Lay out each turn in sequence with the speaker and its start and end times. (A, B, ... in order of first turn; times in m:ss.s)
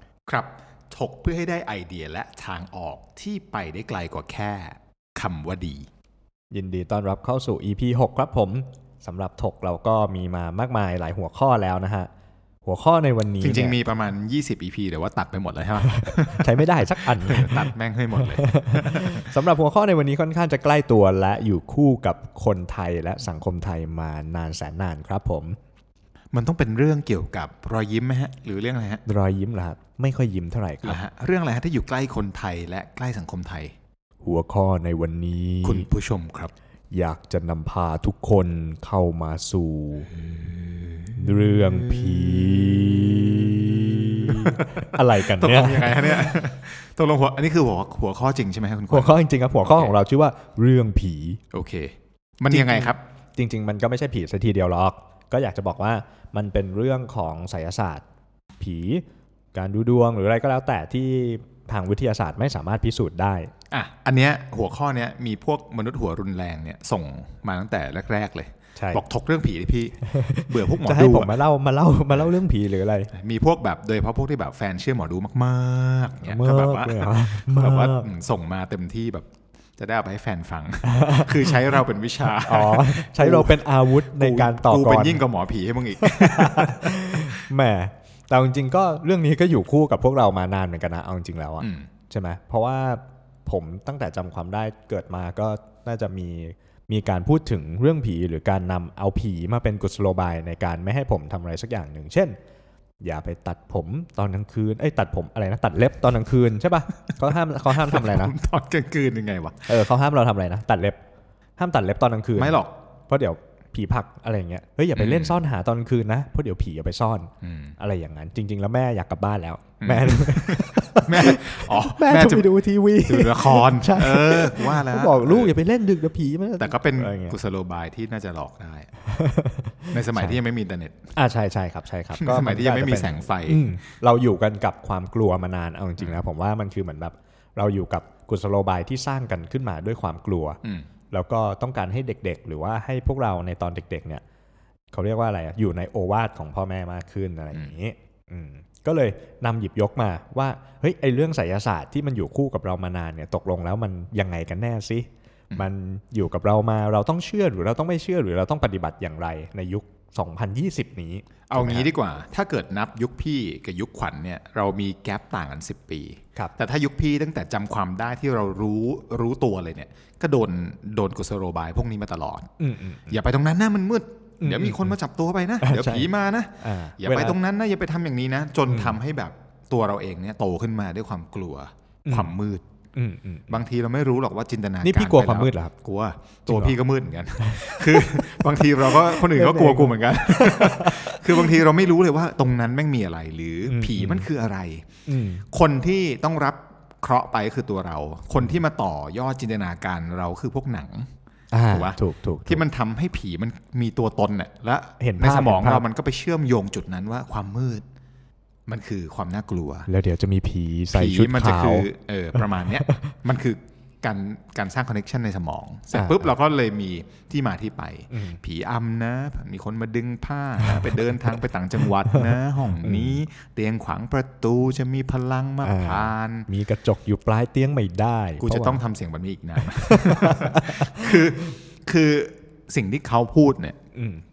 0:00.3-0:05.9 A
0:06.5-0:12.1 B
0:12.6-0:13.8 B
0:13.4-0:19.3 A
0:16.3-0:25.6 B
0:26.3-0:29.0 A
0:29.0-0:31.0 B
0:30.8-0:33.7 A
0:34.2-0:35.9 B
0:35.6-0:36.5 A
0:36.9-0:40.1 B
0:40.1-0:49.9 A
0:41.2-0:46.4 B
0:48.9-0:51.4 B
0:51.5-0:53.0 A
0:52.5-0:58.0 B
0:58.6-1:03.5 B
1:03.7-1:11.4 A
1:08.8-1:09.0 B
1:10.0-1:13.1 B
1:13.1-1:27.4 A
1:16.2-1:18.1 B
1:20.8-1:21.6 B
1:22.4-1:25.2 B
1:26.0-1:42.3 B
1:31.6-1:31.9 A
1:43.0-1:48.3 B
1:47.7-1:49.7 A
1:49.7-1:51.0 B
1:51.6-2:07.4 B
1:52.4-1:52.7 A
1:55.0-1:55.4 A
1:57.4-1:57.8 A
1:59.8-2:02.5 A
2:03.0-2:05.5 A
2:06.6-2:08.9 A
2:09.0-2:10.4 B
2:09.9-2:11.1 A
2:11.2-2:20.6 B
2:12.1-2:13.7 A
2:20.6-2:20.9 A
2:21.1-2:24.2 B
2:24.9-2:41.9 B
2:41.5-2:52.5 A
2:52.6-2:53.2 B
2:53.1-3:02.6 A
2:54.4-2:55.0 B
2:55.6-2:56.1 B
2:56.6-2:57.4 B
2:58.7-2:59.0 B
3:02.0-3:02.3 B
3:03.0-3:03.6 B
3:03.5-3:14.9 A
3:04.8-3:05.7 B
3:06.5-3:06.8 B
3:07.4-3:08.2 B
3:08.9-3:11.6 B
3:13.7-3:14.3 B
3:15.1-3:15.4 B
3:15.5-3:21.1 A
3:21.5-3:22.6 B
3:21.7-3:27.8 A
3:25.0-3:25.8 B
3:28.7-3:29.9 A
3:29.9-3:33.0 B
3:30.9-3:46.5 A
3:35.9-3:36.3 B
3:38.1-3:38.4 B
3:40.6-3:41.1 B
3:42.1-3:43.2 B
3:45.6-3:48.8 B
3:48.4-3:53.8 A
3:49.7-3:51.2 B
3:53.9-3:54.2 B